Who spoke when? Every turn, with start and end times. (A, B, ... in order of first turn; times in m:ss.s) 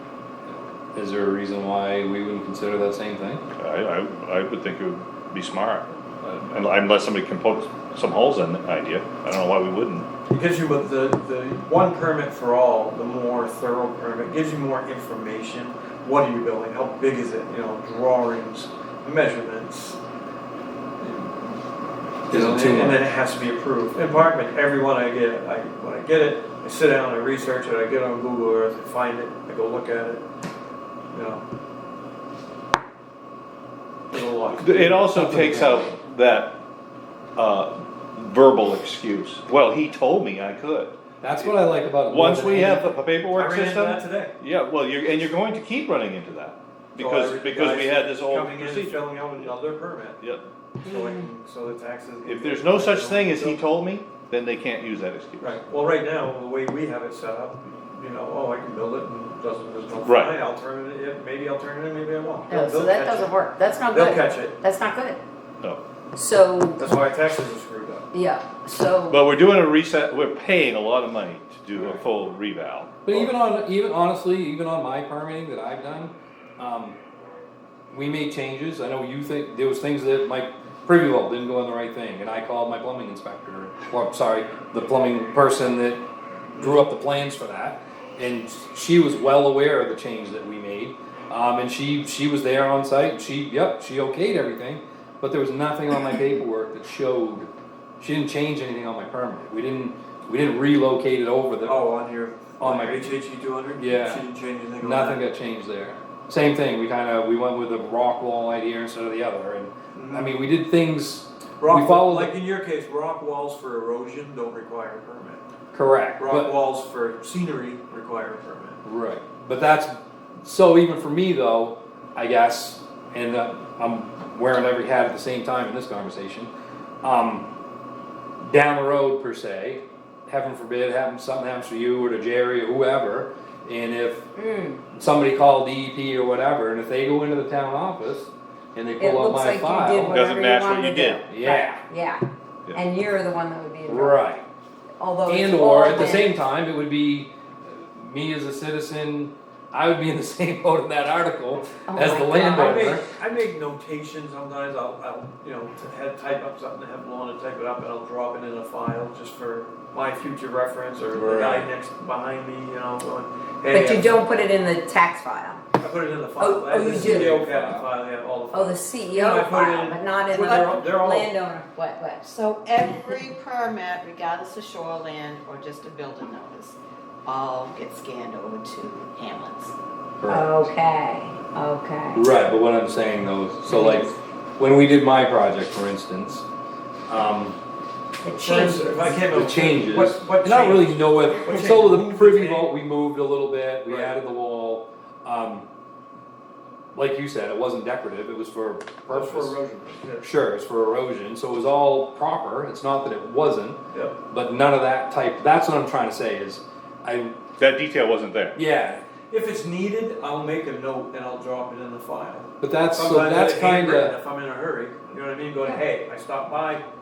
0:00.5-0:03.4 A
0:03.6-0:10.1 B
0:10.3-0:20.0 C
0:21.0-0:21.6 C
0:22.3-0:30.2 C
0:22.3-0:23.0 A
0:31.1-0:31.4 C
0:34.1-0:35.0 C
0:34.6-0:36.6 B
0:35.1-0:35.9 A
0:37.4-0:41.5 B
0:41.2-0:42.8 A
0:42.0-0:49.5 B
0:43.3-0:44.4 C
0:47.0-0:50.2 C
0:50.2-0:50.4 B
0:50.8-0:53.6 C
0:50.8-0:51.3 D
0:52.2-0:55.6 B
0:55.4-1:04.6 C
1:00.0-1:00.4 B
1:02.5-1:05.2 D
1:06.2-1:06.8 D
1:06.8-1:08.1 C
1:08.1-1:09.2 D
1:09.1-1:13.3 B
1:13.1-1:17.0 A
1:17.9-1:37.5 A
1:26.6-1:26.9 C
1:38.0-1:41.8 A
1:41.6-1:45.2 C
1:42.6-1:43.1 A
1:43.8-1:44.3 A
1:44.8-1:52.3 A
1:49.9-1:50.3 C
1:51.6-1:55.4 C
1:55.7-1:56.5 A
1:56.2-1:58.8 C
1:58.8-2:06.5 A
2:07.0-2:07.5 A
2:08.4-2:14.3 A
2:14.4-2:14.8 D
2:14.9-2:20.2 A
2:19.0-2:24.2 D
2:20.1-2:21.2 B
2:21.3-2:21.8 A
2:23.8-2:24.4 A
2:25.0-2:26.3 D
2:25.3-2:33.1 A
2:31.9-2:32.9 D
2:32.5-2:44.4 C
2:41.1-2:41.7 A
2:43.7-2:45.6 D
2:45.8-2:51.3 C
2:46.4-2:47.4 D
2:46.7-2:47.9 A
2:48.5-2:52.2 D
2:50.4-2:50.7 E
2:52.2-2:59.7 E
3:00.2-3:00.7 A
3:00.3-3:02.2 D
3:02.1-3:06.4 A
3:03.7-3:04.1 D
3:07.1-3:07.6 A
3:08.2-3:08.9 D
3:08.2-3:12.7 C
3:09.1-3:15.7 A
3:13.8-3:14.2 C
3:16.9-3:19.6 A
3:19.1-3:20.3 C
3:20.2-3:27.4 A
3:27.6-3:28.6 B
3:28.5-3:29.0 A
3:29.3-3:36.8 C
3:32.6-3:34.1 A